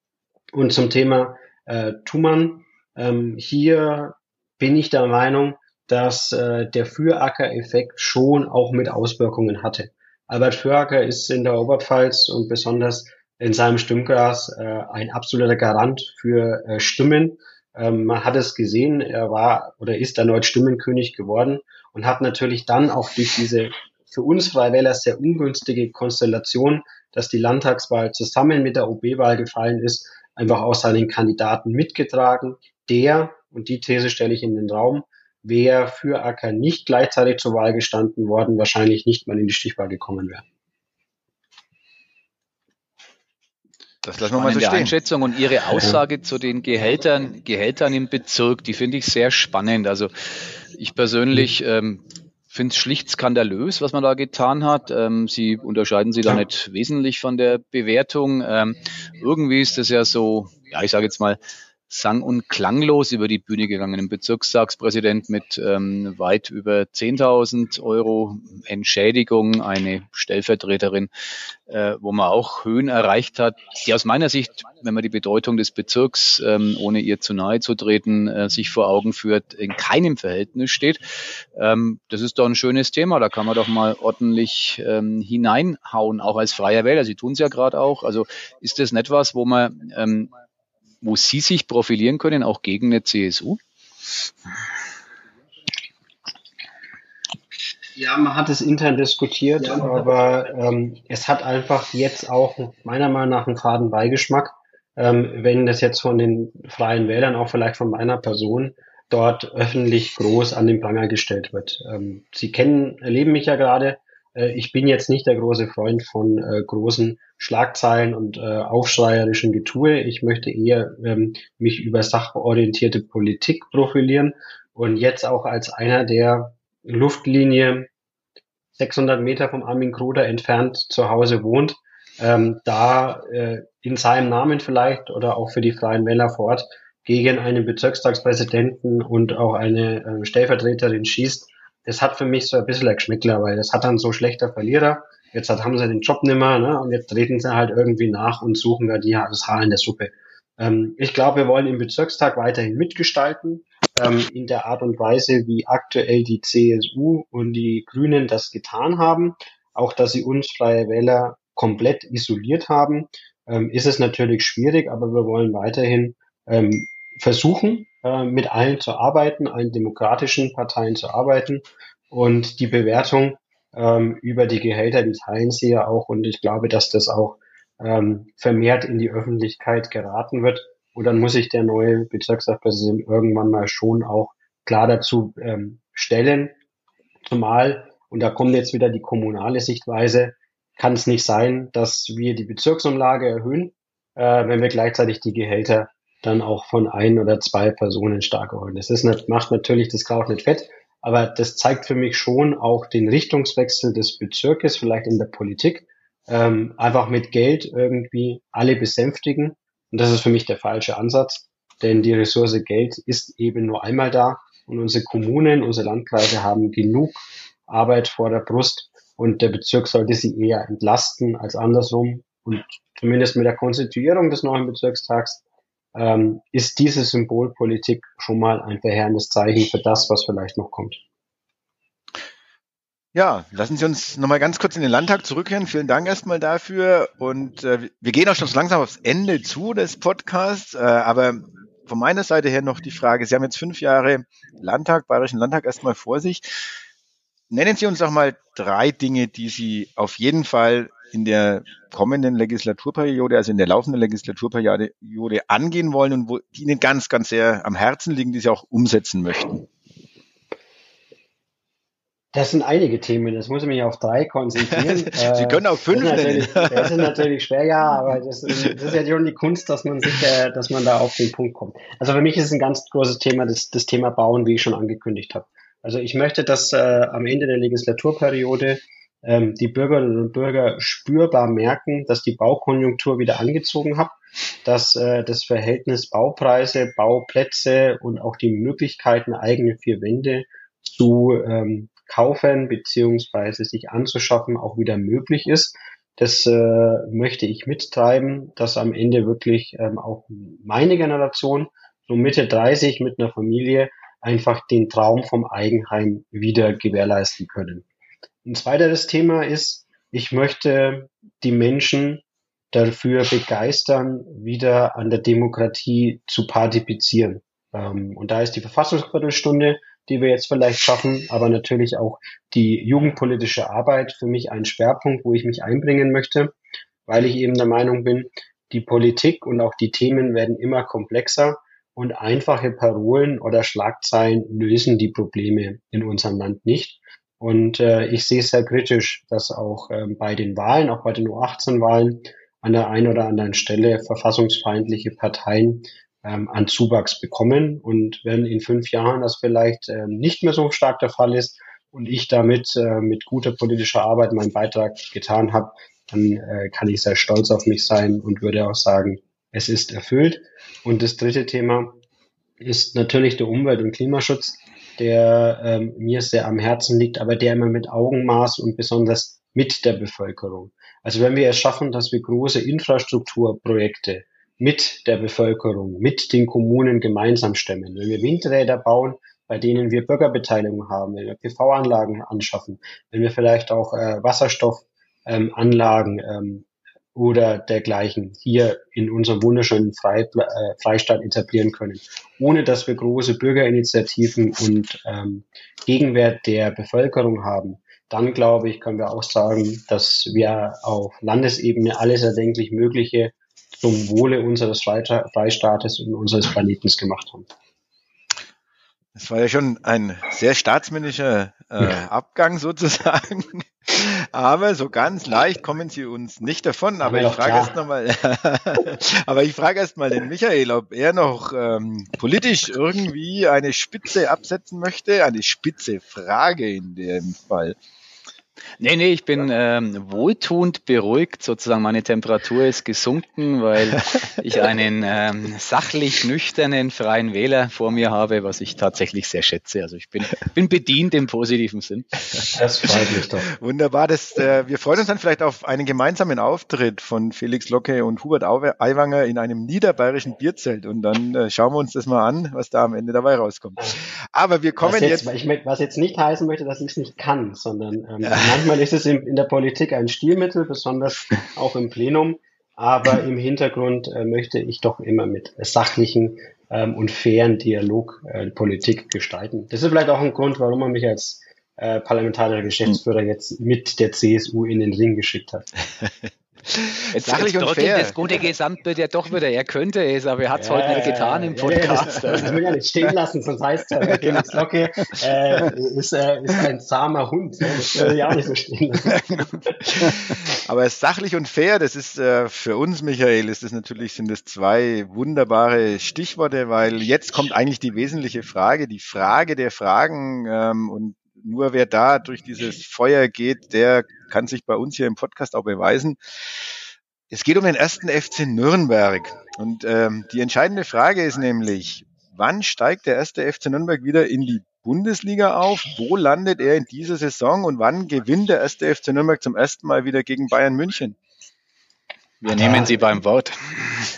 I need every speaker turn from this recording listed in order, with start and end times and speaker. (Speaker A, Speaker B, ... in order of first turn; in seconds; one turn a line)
Speaker A: 0.5-40.4
Speaker B: 44.0-44.9
Speaker C: 44.3-50.1
Speaker C: 50.7-71.1
Speaker C: 71.7-81.0
Speaker C: 81.5-90.3
Speaker C: 91.0-93.6
Speaker A: 98.0-127.9
Speaker A: 128.8-186.6
Speaker A: 187.2-225.4
Speaker A: 225.9-231.0
Speaker B: 233.1-246.4
Speaker B: 247.5-259.6
Speaker A: 262.3-307.8
Speaker B: 264.7-267.2
Speaker A: 308.4-326.5
Speaker A: 327.1-362.0
Speaker A: 362.6-407.5
Speaker B: 409.1-427.8
Speaker A: 417.0-417.7
Speaker C: 428.8-442.1
Speaker A: 442.5-443.5
Speaker B: 443.6-455.2
Speaker A: 454.8-475.7
Speaker B: 458.2-458.5
Speaker B: 476.7-478.1
Speaker C: 477.1-482.5
Speaker A: 480.5-490.1
Speaker B: 484.2-484.5
Speaker B: 489.1-506.2
Speaker B: 507.3-521.2
Speaker C: 522.4-524.1
Speaker A: 522.5-522.9